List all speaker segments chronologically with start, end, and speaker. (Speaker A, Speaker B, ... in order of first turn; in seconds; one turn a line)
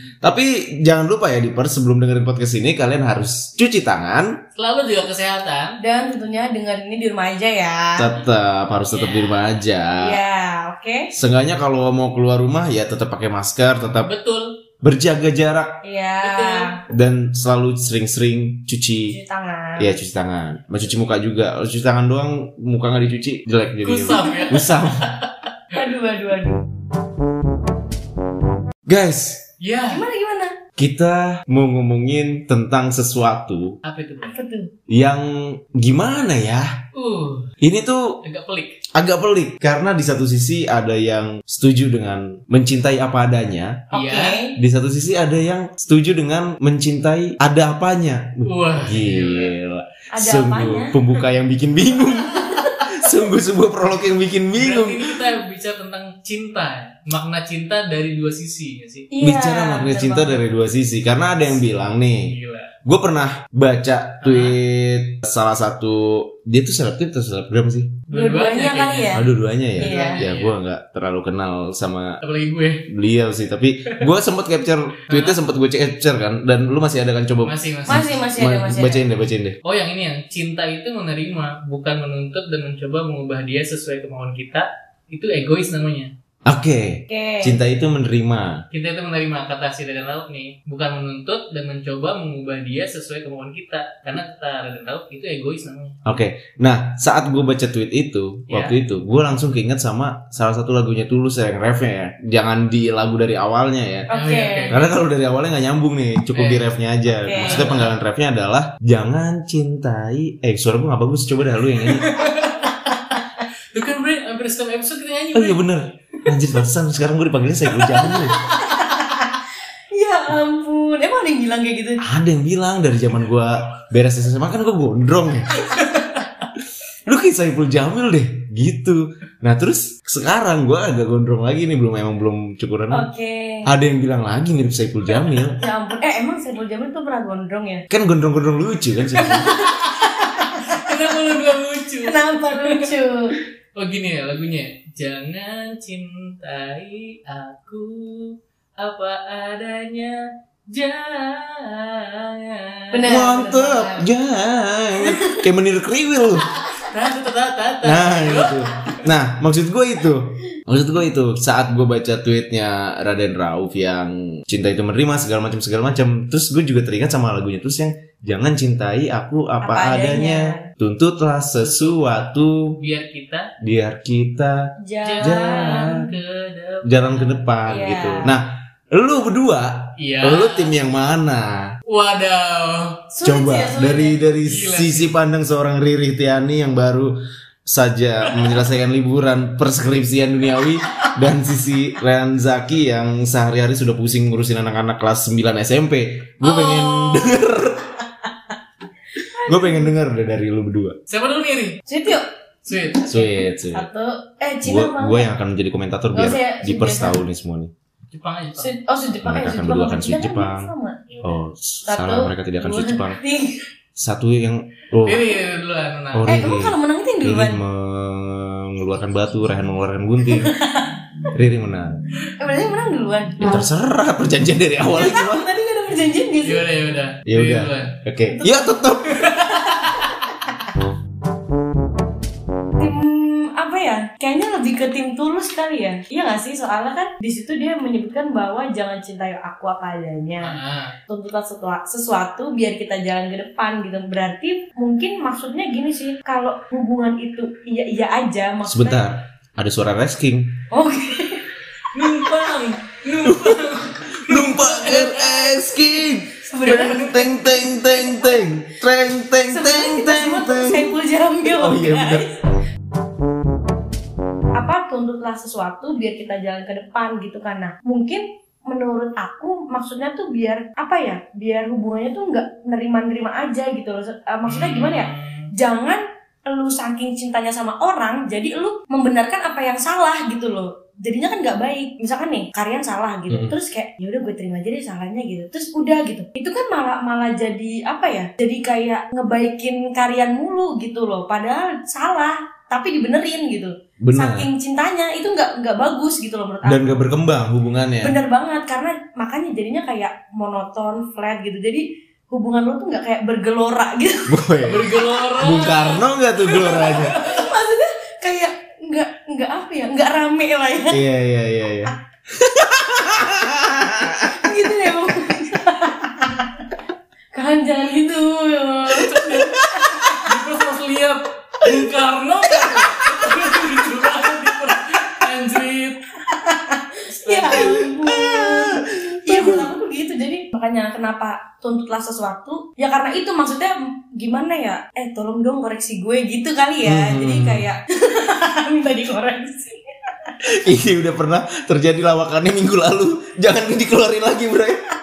Speaker A: 0.2-4.4
Speaker B: 4.5-5.8
Speaker C: 5.8-8.2
Speaker A: 8.0-10.2
Speaker B: 8.9-9.4
Speaker C: 10.0-11.1
Speaker A: 11.1-14.1
Speaker B: 14.0-14.5
Speaker A: 14.8-15.7
Speaker C: 15.8-16.8
Speaker B: 16.2-16.8
Speaker A: 16.9-19.2
Speaker C: 19.1-20.0
Speaker A: 19.8-25.1
Speaker B: 23.8-25.3
Speaker C: 25.7-26.6
Speaker A: 28.9-29.5
Speaker B: 29.6-30.0
Speaker C: 29.9-30.6
Speaker A: 30.8-33.8
Speaker B: 33.8-34.3
Speaker C: 34.2-34.7
Speaker A: 34.9-36.7
Speaker B: 36.9-37.5
Speaker A: 37.6-38.2
Speaker B: 38.2-38.8
Speaker A: 38.9-43.9
Speaker B: 43.9-44.4
Speaker C: 43.9-44.6
Speaker A: 44.5-55.1
Speaker B: 48.4-49.5
Speaker C: 50.1-51.0
Speaker B: 54.5-59.1
Speaker C: 59.1-60.4
Speaker A: 59.2-62.3
Speaker B: 62.2-62.7
Speaker A: 62.8-68.0
Speaker B: 64.2-64.6
Speaker B: 68.1-69.2
Speaker C: 68.1-70.2
Speaker A: 69.1-72.2
Speaker B: 69.8-70.6
Speaker B: 72.2-72.9
Speaker A: 72.9-79.6
Speaker B: 75.1-75.4
Speaker B: 77.4-78.1
Speaker C: 77.9-79.0
Speaker B: 79.6-86.1
Speaker A: 86.5-88.6
Speaker C: 87.1-87.6
Speaker B: 88.7-96.0
Speaker A: 96.0-104.1
Speaker B: 98.5-98.8
Speaker C: 104.1-104.9
Speaker B: 104.1-104.8
Speaker A: 104.7-112.1
Speaker B: 106.3-106.7
Speaker C: 107.1-107.7
Speaker B: 107.3-107.9
Speaker B: 111.8-112.8
Speaker B: 113.7-115.7
Speaker A: 115.3-118.4
Speaker B: 116.2-116.7
Speaker B: 117.7-118.9
Speaker C: 118.3-119.4
Speaker C: 119.9-122.0
Speaker A: 122.0-125.7
Speaker B: 125.7-126.2
Speaker A: 127.0-133.1
Speaker C: 132.9-133.7
Speaker A: 133.7-135.6
Speaker C: 135.6-137.8
Speaker A: 137.9-139.5
Speaker B: 139.1-142.9
Speaker C: 139.2-140.9
Speaker C: 142.0-143.3
Speaker B: 143.8-153.1
Speaker C: 152.9-154.1
Speaker A: 153.1-156.4
Speaker C: 155.0-155.4
Speaker B: 156.6-159.1
Speaker A: 157.8-172.7
Speaker C: 169.6-170.6
Speaker B: 171.6-172.2
Speaker B: 172.8-173.5
Speaker A: 173.6-174.6
Speaker C: 174.8-175.9
Speaker B: 175.0-177.4
Speaker A: 175.2-176.0
Speaker A: 176.9-181.7
Speaker C: 177.7-178.4
Speaker B: 180.0-180.8
Speaker B: 181.9-183.0
Speaker C: 183.1-184.2
Speaker A: 183.2-187.1
Speaker B: 184.4-185.1
Speaker A: 187.7-197.9
Speaker B: 188.2-188.6
Speaker B: 190.6-191.1
Speaker B: 196.4-197.4
Speaker C: 199.3-199.9
Speaker A: 199.4-201.0
Speaker B: 201.1-201.8
Speaker C: 201.9-205.3
Speaker B: 202.7-203.1
Speaker A: 203.1-203.9
Speaker A: 204.6-207.7
Speaker C: 206.1-207.2
Speaker B: 208.1-208.7
Speaker C: 208.6-211.0
Speaker A: 209.2-210.7
Speaker B: 211.1-211.4
Speaker A: 211.2-213.2
Speaker C: 211.9-213.7
Speaker A: 214.0-215.3
Speaker B: 215.1-216.4
Speaker A: 216.1-220.5
Speaker C: 216.3-217.6
Speaker C: 220.4-221.0
Speaker A: 221.3-221.9
Speaker C: 222.4-223.7
Speaker A: 223.4-225.5
Speaker C: 224.9-226.7
Speaker B: 226.4-227.9
Speaker A: 227.3-229.3
Speaker C: 228.3-230.1
Speaker B: 229.1-230.1
Speaker C: 232.8-249.0
Speaker B: 240.4-240.9
Speaker A: 248.7-250.5
Speaker C: 250.7-252.3
Speaker B: 251.9-255.5
Speaker A: 253.2-260.9
Speaker C: 256.4-258.6
Speaker B: 256.6-257.3
Speaker C: 259.5-262.4
Speaker A: 261.5-262.2
Speaker C: 264.6-297.0
Speaker B: 274.4-275.5
Speaker A: 294.1-294.5
Speaker A: 296.6-298.1
Speaker C: 298.0-305.7
Speaker A: 304.3-307.2
Speaker B: 304.6-307.5
Speaker C: 306.5-311.0
Speaker A: 310.9-314.5
Speaker C: 314.2-316.4
Speaker C: 317.3-319.2
Speaker B: 318.9-326.0
Speaker C: 319.9-320.1
Speaker C: 326.3-340.3
Speaker B: 327.1-327.8
Speaker A: 327.5-329.7
Speaker A: 336.9-337.6
Speaker A: 340.5-344.8